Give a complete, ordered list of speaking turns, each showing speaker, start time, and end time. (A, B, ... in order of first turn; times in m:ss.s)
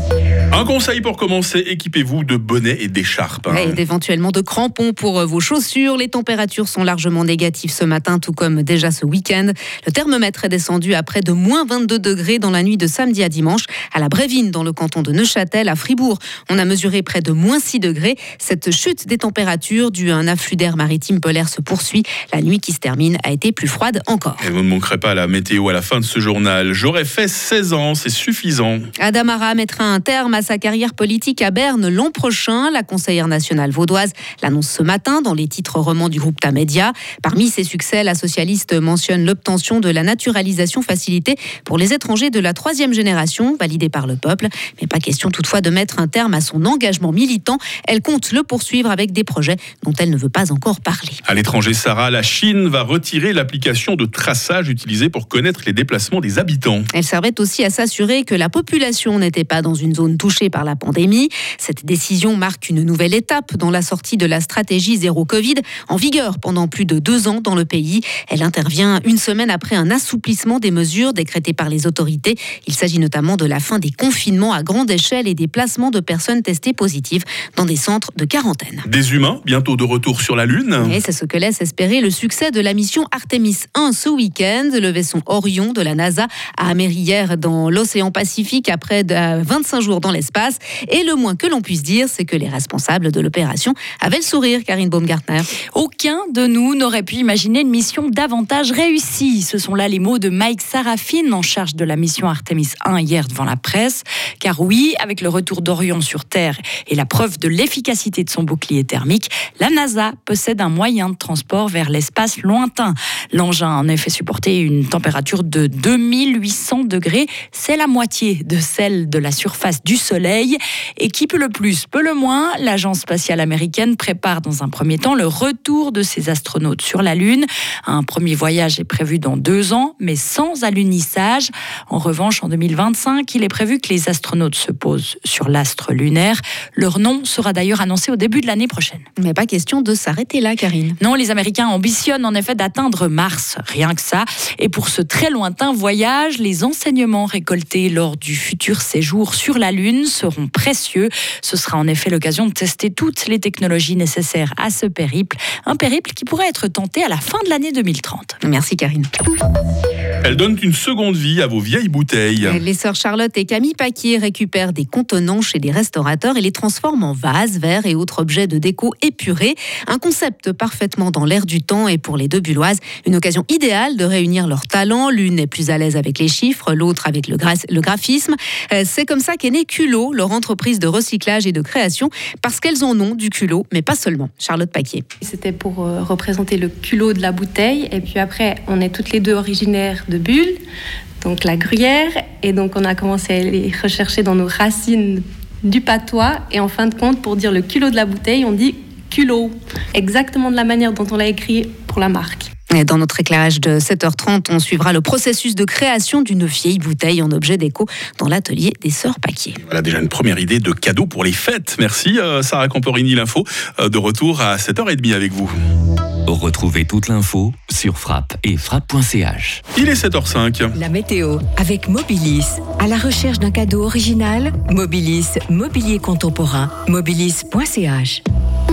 0:00.5-0:03.8 A
0:03.5-0:24.4 B
0:24.4-0:28.8 A
0:29.0-0:51.2 B
0:51.2-0:56.9 A
0:56.9-1:18.8 B
1:18.8-1:20.9 A
1:20.8-1:35.5 B
1:35.7-2:19.0 C
2:19.2-2:21.0 B
2:21.0-2:38.4 C
2:38.4-2:39.1 B
2:40.2-2:42.6 A
2:42.4-3:05.0 B
3:05.2-3:10.6 D
3:11.2-3:22.5 D
3:22.7-3:29.6 B
3:29.7-3:35.5 A
3:36.3-3:39.6 E
3:39.7-3:40.8 A
3:40.7-3:48.2 F